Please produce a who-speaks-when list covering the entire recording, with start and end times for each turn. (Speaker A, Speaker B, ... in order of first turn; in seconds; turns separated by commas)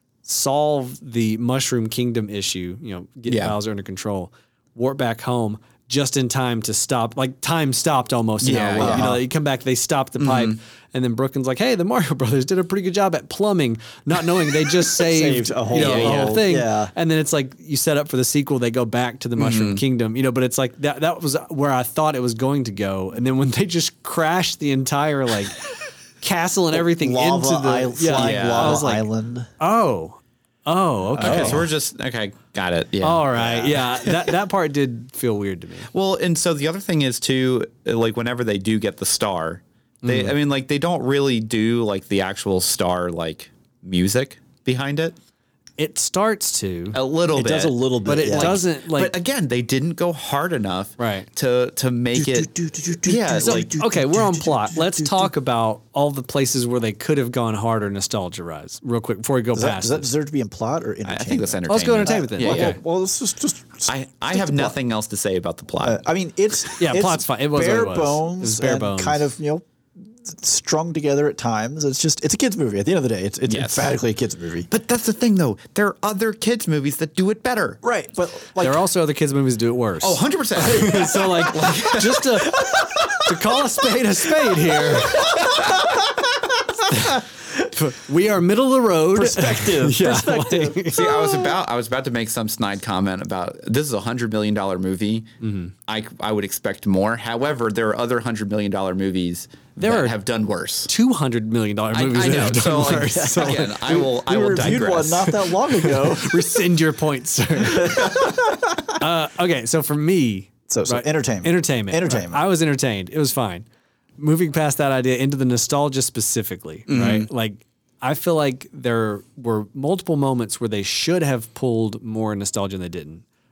Speaker A: 0.2-25.6, Speaker B: 3.3-3.5, Speaker B: 8.4-9.1, Speaker C: 8.8-9.2, Speaker B: 10.2-10.6, Speaker C: 15.1-16.9, Speaker B: 15.7-16.4, Speaker B: 19.4-19.8, Speaker A: 26.2-29.1, Speaker C: 26.7-29.5, Speaker B: 28.1-28.8, Speaker A: 29.6-31.6, Speaker C: 31.1-31.6, Speaker B: 31.2-34.3, Speaker A: 33.0-35.9, Speaker C: 33.4-33.8, Speaker B: 35.9-45.1, Speaker A: 40.0-40.3, Speaker A: 45.8-47.0, Speaker B: 46.9-52.5, Speaker C: 47.3-48.6, Speaker A: 48.0-49.1, Speaker A: 51.0-51.3, Speaker C: 52.1-55.3, Speaker B: 53.0-53.7, Speaker A: 53.4-60.1, Speaker C: 59.5-64.7, Speaker B: 61.0-62.8, Speaker A: 61.7-62.8, Speaker B: 63.9-66.0, Speaker C: 65.8-69.6, Speaker A: 66.8-69.2, Speaker C: 70.2-74.7, Speaker B: 73.5-73.9, Speaker B: 74.7-77.8, Speaker C: 77.8-78.8, Speaker A: 78.6-85.3, Speaker B: 80.0-82.3, Speaker C: 82.8-83.2, Speaker C: 84.5-85.9, Speaker A: 86.9-91.4, Speaker C: 89.1-91.0, Speaker B: 90.9-95.3, Speaker A: 95.4-95.7, Speaker B: 95.9-100.9, Speaker A: 99.8-100.2, Speaker A: 100.9-103.7, Speaker B: 101.9-105.3, Speaker C: 103.1-106.7, Speaker A: 105.2-113.7, Speaker C: 107.7-108.7, Speaker C: 110.7-112.4, Speaker A: 114.2-123.2, Speaker B: 116.9-117.3